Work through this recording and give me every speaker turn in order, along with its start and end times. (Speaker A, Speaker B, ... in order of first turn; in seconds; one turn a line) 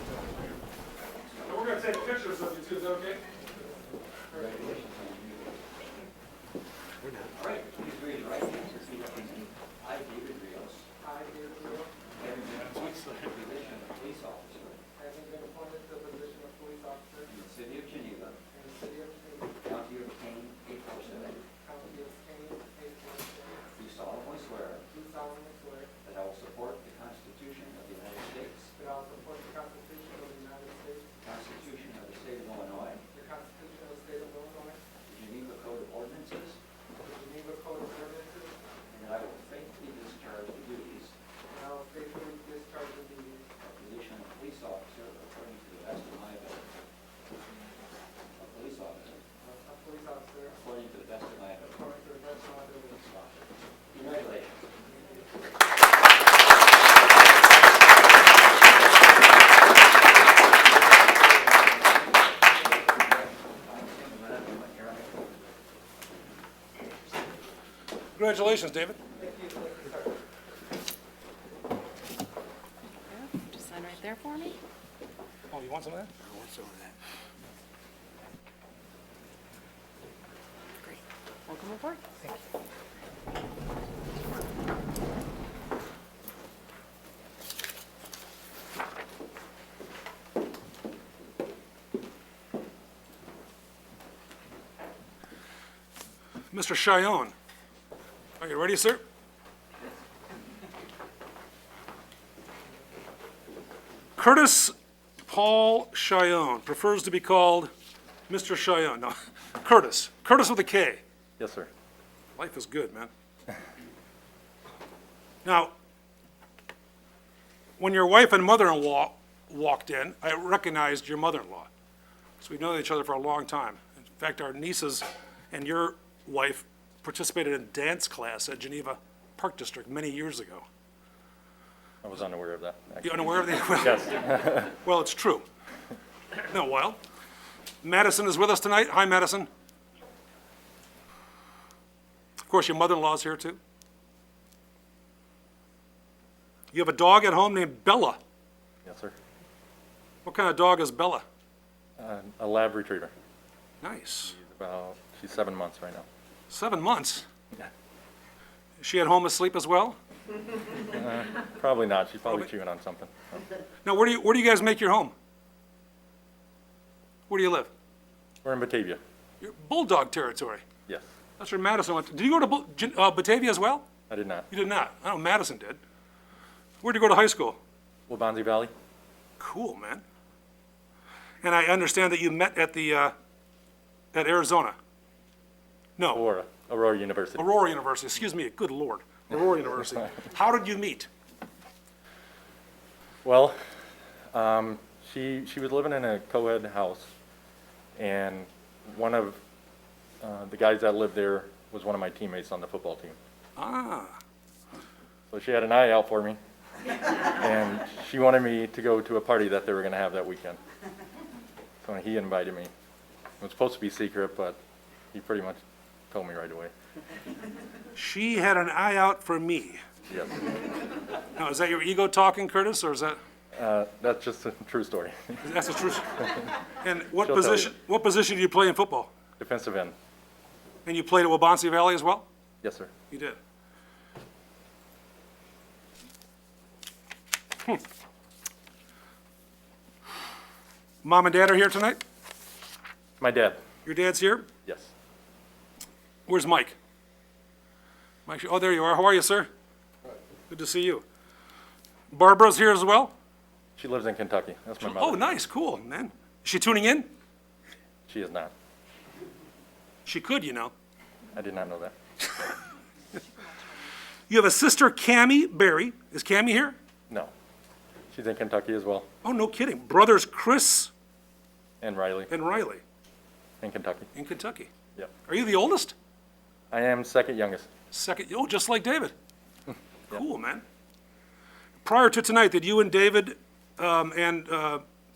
Speaker A: 1.2-1.6
Speaker B: 1.4-3.3
Speaker C: 3.5-4.5
Speaker A: 4.3-5.7
Speaker B: 7.0-7.3
Speaker A: 7.3-10.9
Speaker C: 11.0-11.9
Speaker A: 12.2-14.8
Speaker B: 12.5-13.4
Speaker C: 15.0-17.3
Speaker A: 17.2-18.4
Speaker C: 18.5-19.5
Speaker A: 19.6-21.4
Speaker C: 21.6-23.6
Speaker A: 23.7-24.9
Speaker C: 24.9-25.9
Speaker A: 26.0-28.7
Speaker C: 28.8-31.1
Speaker A: 31.2-33.0
Speaker C: 33.1-34.8
Speaker A: 35.0-36.6
Speaker C: 37.0-38.6
Speaker A: 38.9-41.1
Speaker C: 41.5-43.5
Speaker A: 43.6-46.8
Speaker A: 48.4-49.2
Speaker C: 49.4-50.6
Speaker A: 50.5-51.9
Speaker C: 51.7-53.0
Speaker A: 52.9-54.8
Speaker C: 54.8-55.2
Speaker A: 61.2-65.5
Speaker B: 68.2-69.0
Speaker C: 69.2-70.1
Speaker D: 73.0-74.6
Speaker B: 75.5-77.0
Speaker D: 80.8-82.0
Speaker B: 96.5-97.3
Speaker B: 98.4-99.0
Speaker B: 104.2-107.7
Speaker B: 108.3-111.0
Speaker E: 111.4-111.7
Speaker B: 112.4-113.1
Speaker B: 115.5-115.7
Speaker B: 117.8-121.7
Speaker B: 122.4-130.7
Speaker E: 132.0-134.7
Speaker B: 133.0-135.5
Speaker B: 136.5-137.0
Speaker B: 137.8-139.5
Speaker B: 142.5-143.6
Speaker B: 146.7-148.2
Speaker E: 148.8-149.2
Speaker B: 150.2-151.2
Speaker E: 152.0-153.1
Speaker B: 153.8-154.3
Speaker E: 154.2-156.1
Speaker B: 156.5-157.3
Speaker B: 158.8-160.0
Speaker E: 160.8-163.4
Speaker B: 163.8-165.1
Speaker B: 167.3-167.7
Speaker E: 168.4-169.0
Speaker B: 169.4-170.6
Speaker B: 171.4-173.9
Speaker E: 174.1-174.5
Speaker B: 174.5-175.8
Speaker B: 176.8-177.6
Speaker E: 178.1-178.7
Speaker B: 179.4-180.0
Speaker B: 181.4-183.2
Speaker B: 184.1-184.8
Speaker B: 186.0-186.2
Speaker E: 186.1-187.5
Speaker B: 187.4-191.1
Speaker E: 193.2-193.6
Speaker E: 194.3-197.1
Speaker E: 198.0-199.4
Speaker E: 200.2-203.2
Speaker B: 203.6-204.2
Speaker E: 205.3-206.4
Speaker E: 207.2-210.6
Speaker E: 211.8-212.7
Speaker E: 213.4-214.6
Speaker E: 215.1-215.6
Speaker E: 216.1-216.7
Speaker B: 217.9-219.8
Speaker E: 220.1-220.4
Speaker B: 221.4-223.2
Speaker E: 223.5-225.4
Speaker B: 225.4-229.1
Speaker E: 227.2-227.7
Speaker E: 229.4-229.9
Speaker B: 230.8-232.3
Speaker E: 232.6-232.9
Speaker B: 233.1-233.4
Speaker B: 241.0-242.0
Speaker E: 243.2-243.6
Speaker B: 243.8-244.5
Speaker E: 244.7-244.9
Speaker B: 246.3-246.8
Speaker B: 248.3-249.5
Speaker B: 250.5-251.1
Speaker B: 252.1-253.1
Speaker E: 253.8-255.4
Speaker B: 254.8-257.1
Speaker E: 258.1-258.5
Speaker B: 260.1-260.7
Speaker E: 261.3-261.9
Speaker B: 264.3-266.8
Speaker E: 268.1-269.1
Speaker B: 269.2-270.9
Speaker E: 271.8-272.3
Speaker B: 272.3-272.8
Speaker E: 273.6-274.1
Speaker B: 274.1-274.7
Speaker B: 275.3-275.9
Speaker E: 276.7-277.7
Speaker B: 277.9-279.1
Speaker B: 280.1-280.6
Speaker B: 281.8-284.8